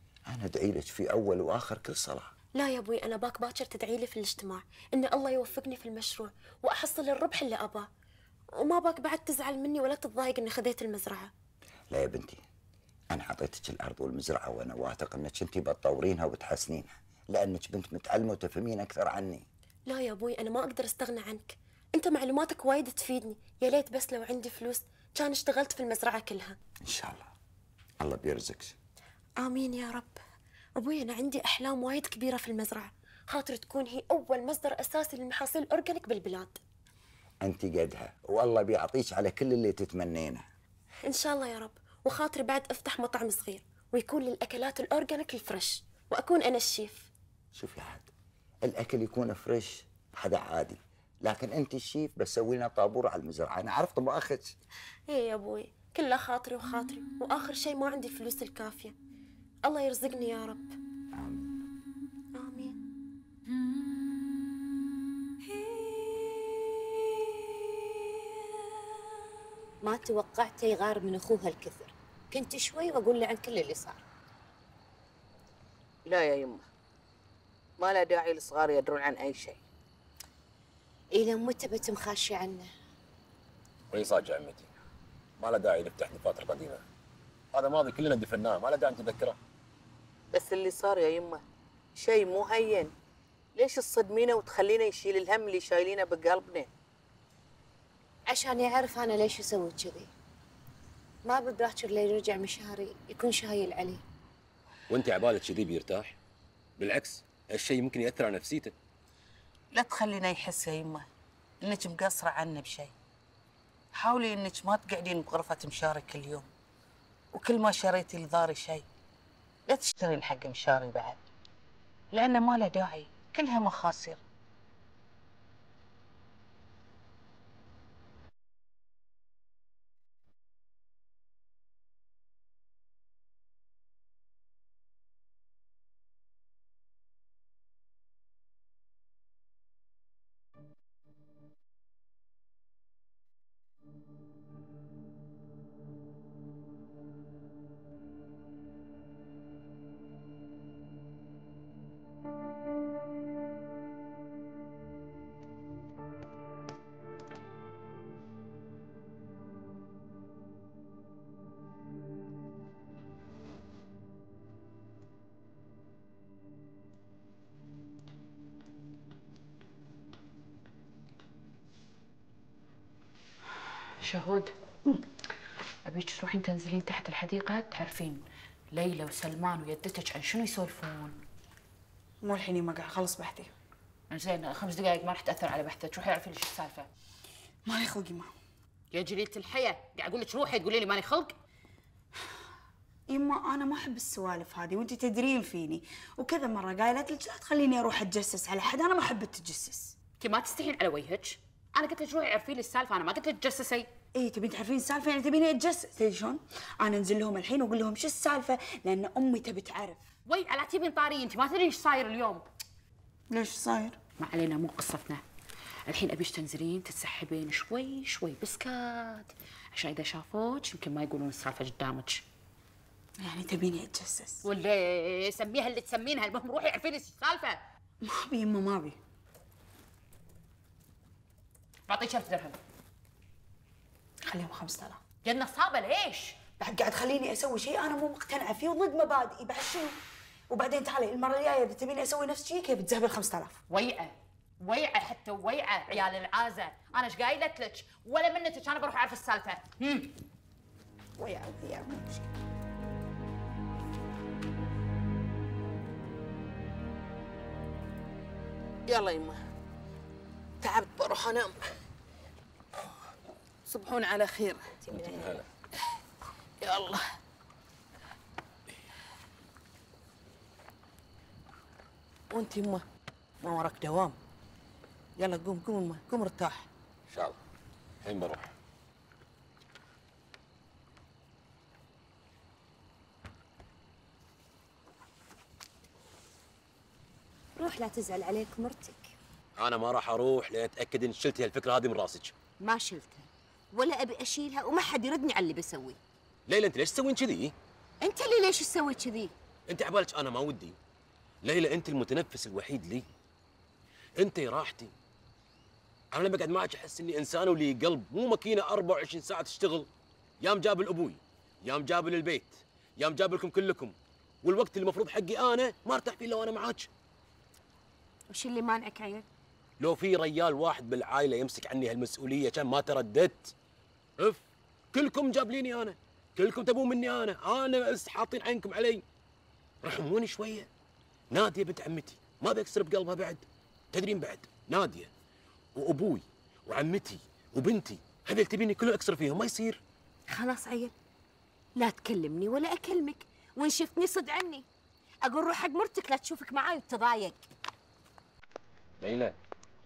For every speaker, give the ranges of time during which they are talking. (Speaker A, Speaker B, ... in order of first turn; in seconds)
Speaker A: 0.3-2.3, 11.9-12.4, 13.1-19.5, 26.8-27.3, 28.0-28.8, 37.4-40.4, 47.5-48.1, 48.6-54.5, 61.2-61.5
Speaker B: 2.5-7.9, 8.5-11.3, 19.9-26.6, 29.4-30.2, 30.8-36.6, 41.0-47.1, 55.1-59.0, 59.6-60.8, 62.3-62.8
Speaker C: 69.8-74.0, 81.1-82.7, 98.3-100.1, 101.2-104.0, 287.6-289.1, 292.6-296.0, 298.0-299.3, 318.3-319.2, 340.3-340.9, 341.8-344.6, 345.2-347.4
Speaker D: 76.1-76.7, 77.8-79.6, 90.3-91.4, 92.0-92.9, 93.6-96.7, 109.7-111.1, 111.6-112.9, 114.0-116.5, 117.3-118.8, 119.7-121.2, 122.1-124.2, 258.9-259.4, 260.6-261.6, 263.7-265.3, 266.6-267.0, 272.3-272.8, 273.4-274.1, 275.2-276.6
Speaker E: 83.9-84.7, 85.4-86.8, 87.5-89.4, 104.9-106.2, 106.8-108.7, 264.9-265.4, 277.1-277.4, 278.0-278.5, 289.6-292.3, 296.5-297.5, 299.7-300.8, 301.4-303.1, 304.2-304.9, 306.1-309.9, 310.4-316.9, 319.8-323.5, 324.2-329.0, 329.8-330.7, 331.3-335.1, 335.8-339.8, 349.0-349.4
Speaker F: 174.0-174.5, 175.8-181.2, 184.1-186.9, 188.9-191.3, 200.2-203.9, 210.3-212.4, 214.2-215.2, 215.9-222.2, 224.4-227.6, 231.9-232.6, 235.2-236.4, 243.7-250.1
Speaker G: 182.2-183.5, 187.7-188.4, 193.1-199.9, 204.2-210.0, 213.3-214.0, 223.2-224.4, 228.0-229.0, 234.3-235.0, 236.6-240.0, 240.5-243.6, 251.2-252.3